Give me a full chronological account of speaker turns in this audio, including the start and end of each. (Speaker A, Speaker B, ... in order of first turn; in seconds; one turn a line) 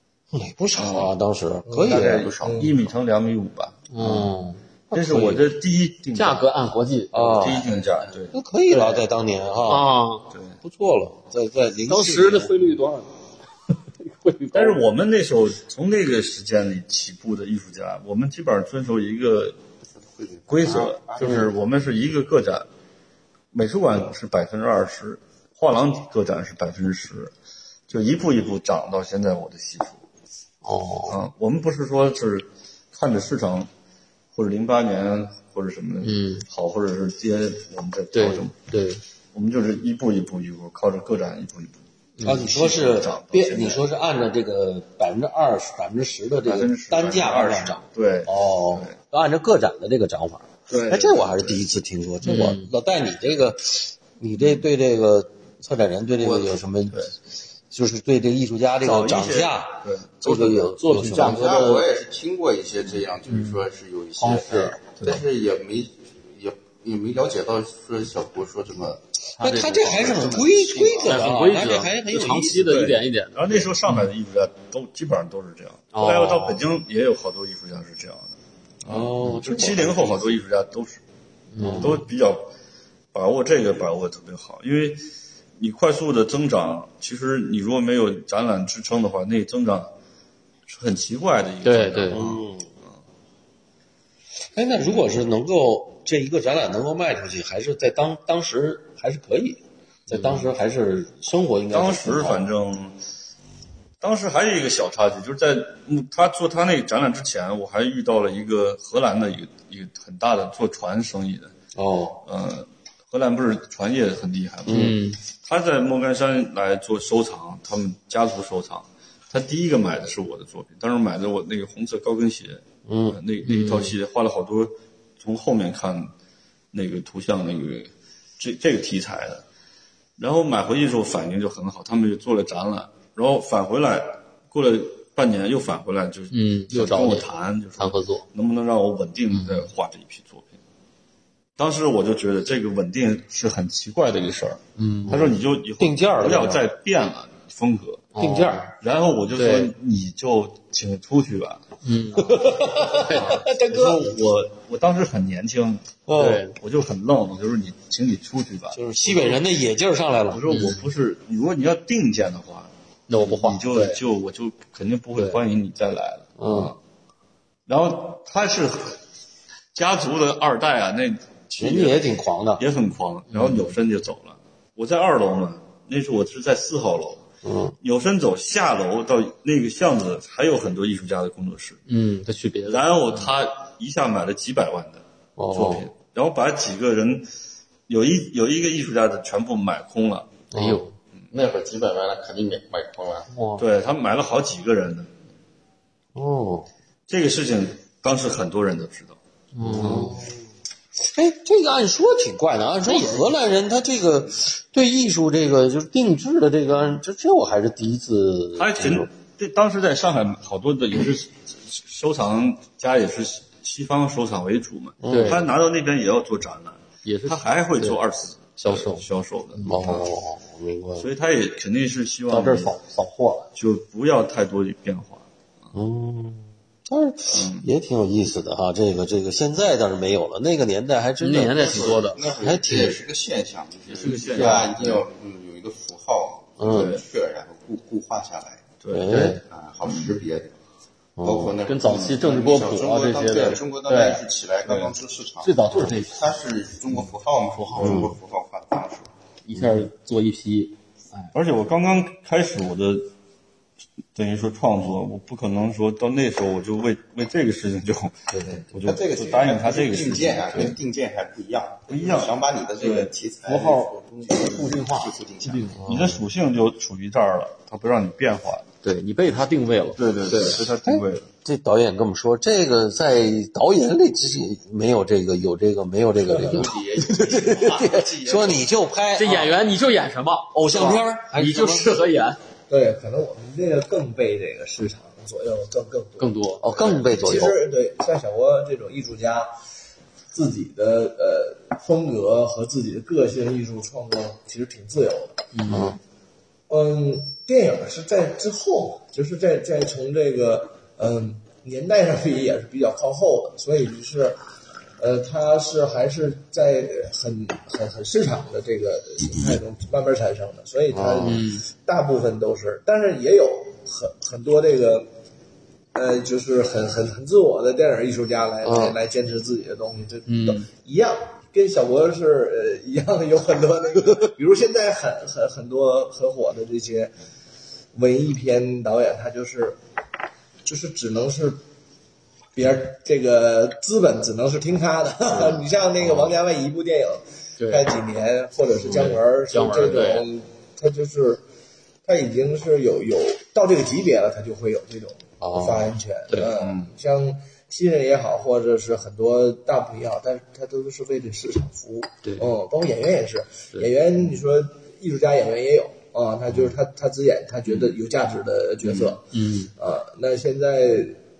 Speaker A: 0.3-2.3
Speaker B: 0.7-1.1
Speaker C: 1.6-2.7
Speaker B: 1.8-4.3
Speaker D: 1.9-2.7
Speaker E: 3.9-4.6
Speaker B: 4.9-6.5
Speaker A: 4.9-5.4
Speaker E: 6.1-7.6
Speaker A: 7.1-7.7
Speaker B: 7.1-8.3
Speaker A: 8.3-9.9
Speaker E: 8.7-9.0
Speaker E: 9.7-10.3
Speaker B: 10.3-10.6
Speaker A: 10.6-12.8
Speaker E: 11.8-13.1
Speaker E: 14.0-14.8
Speaker B: 14.5-19.6
Speaker D: 20.0-21.5
Speaker B: 20.5-22.7
Speaker B: 23.5-27.3
Speaker B: 27.9-30.0
Speaker E: 30.6-31.1
Speaker B: 31.1-33.7
Speaker B: 34.3-38.5
Speaker E: 36.0-36.5
Speaker E: 38.1-39.0
Speaker B: 39.3-43.8
Speaker E: 42.2-42.5
Speaker A: 42.2-57.1
Speaker B: 46.4-48.9
Speaker B: 50.7-51.6
Speaker E: 52.2-52.7
Speaker B: 54.3-54.6
Speaker D: 56.2-56.5
Speaker A: 57.7-61.9
Speaker B: 58.8-60.7
Speaker E: 60.8-61.7
Speaker D: 61.1-71.3
Speaker E: 63.3-63.6
Speaker E: 64.2-64.8
Speaker E: 69.4-70.0
Speaker A: 69.4-72.8
Speaker E: 71.0-73.7
Speaker B: 72.6-81.0
Speaker E: 75.9-76.6
Speaker A: 78.8-80.4
Speaker E: 81.5-82.0
Speaker A: 81.6-82.0
Speaker B: 81.8-82.5
Speaker B: 83.1-89.9
Speaker B: 90.7-92.4
Speaker E: 91.6-92.2
Speaker A: 92.1-92.7
Speaker A: 94.5-102.4
Speaker B: 101.7-103.0
Speaker B: 104.0-111.5
Speaker A: 111.7-112.2
Speaker B: 112.2-126.1
Speaker A: 114.7-115.0
Speaker E: 114.7-115.2
Speaker A: 122.9-123.2
Speaker E: 123.4-123.9
Speaker B: 126.7-129.4
Speaker B: 130.2-140.5
Speaker E: 136.3-138.2
Speaker B: 141.6-148.2
Speaker E: 144.8-145.3
Speaker A: 145.1-146.6
Speaker E: 148.2-148.7
Speaker A: 148.2-148.7
Speaker B: 148.8-151.6
Speaker E: 149.3-149.7
Speaker E: 151.8-153.5
Speaker A: 152.2-154.1
Speaker B: 152.9-159.4
Speaker A: 156.1-156.4
Speaker E: 156.1-156.6
Speaker A: 158.7-160.7
Speaker B: 160.3-166.8
Speaker E: 160.5-160.8
Speaker E: 163.1-164.0
Speaker A: 166.4-166.7
Speaker B: 167.7-169.0
Speaker B: 169.7-177.2
Speaker A: 171.5-172.6
Speaker A: 177.4-177.8
Speaker B: 177.8-181.8
Speaker E: 181.9-182.9
Speaker B: 182.7-187.3
Speaker A: 185.4-185.9
Speaker B: 187.9-190.4
Speaker A: 190.5-190.8
Speaker E: 190.5-190.9
Speaker D: 191.3-193.3
Speaker E: 193.3-193.7
Speaker B: 193.6-195.1
Speaker A: 196.1-196.7
Speaker B: 197.1-199.2
Speaker E: 199.5-200.2
Speaker A: 199.6-200.3
Speaker B: 199.7-200.2
Speaker A: 200.9-209.1
Speaker B: 208.5-220.1
Speaker A: 215.0-215.5
Speaker E: 215.1-215.4
Speaker E: 217.0-218.0
Speaker E: 218.6-219.8
Speaker A: 219.6-221.0
Speaker B: 221.0-222.8
Speaker E: 222.3-223.5
Speaker B: 223.5-225.2
Speaker A: 225.7-233.0
Speaker B: 227.3-227.7
Speaker E: 231.2-232.2
Speaker D: 231.5-238.7
Speaker B: 233.9-235.0
Speaker E: 234.0-235.0
Speaker A: 236.6-237.0
Speaker B: 236.7-237.0
Speaker B: 238.8-240.2
Speaker A: 238.9-239.4
Speaker E: 239.1-239.4
Speaker D: 239.4-240.5
Speaker A: 241.2-241.6
Speaker D: 241.2-249.1
Speaker E: 241.6-244.2
Speaker E: 245.4-246.2
Speaker B: 247.8-248.1
Speaker A: 247.8-248.1
Speaker E: 249.4-251.3
Speaker B: 251.3-253.1
Speaker B: 254.1-260.8
Speaker E: 258.3-258.6
Speaker D: 258.8-265.8
Speaker B: 261.9-263.1
Speaker E: 263.4-266.1
Speaker A: 265.8-266.1
Speaker B: 265.8-268.7
Speaker E: 268.8-270.6
Speaker B: 269.9-271.3
Speaker A: 270.8-279.6
Speaker D: 276.3-278.7
Speaker E: 279.1-282.4
Speaker A: 280.5-281.9
Speaker C: 282.7-289.5
Speaker E: 286.2-287.4
Speaker A: 286.6-287.6
Speaker C: 290.3-295.4
Speaker E: 295.5-296.0
Speaker A: 295.7-296.0
Speaker C: 296.7-304.4
Speaker C: 305.0-315.1
Speaker A: 310.9-311.4
Speaker E: 311.2-311.6
Speaker C: 315.9-327.1
Speaker A: 318.6-319.0
Speaker E: 320.3-320.7
Speaker C: 327.9-329.8
Speaker C: 330.6-331.6
Speaker C: 332.5-341.4
Speaker E: 337.6-337.9
Speaker E: 339.0-340.2
Speaker C: 342.0-361.2
Speaker A: 345.5-345.8
Speaker B: 346.5-346.9
Speaker E: 359.3-359.7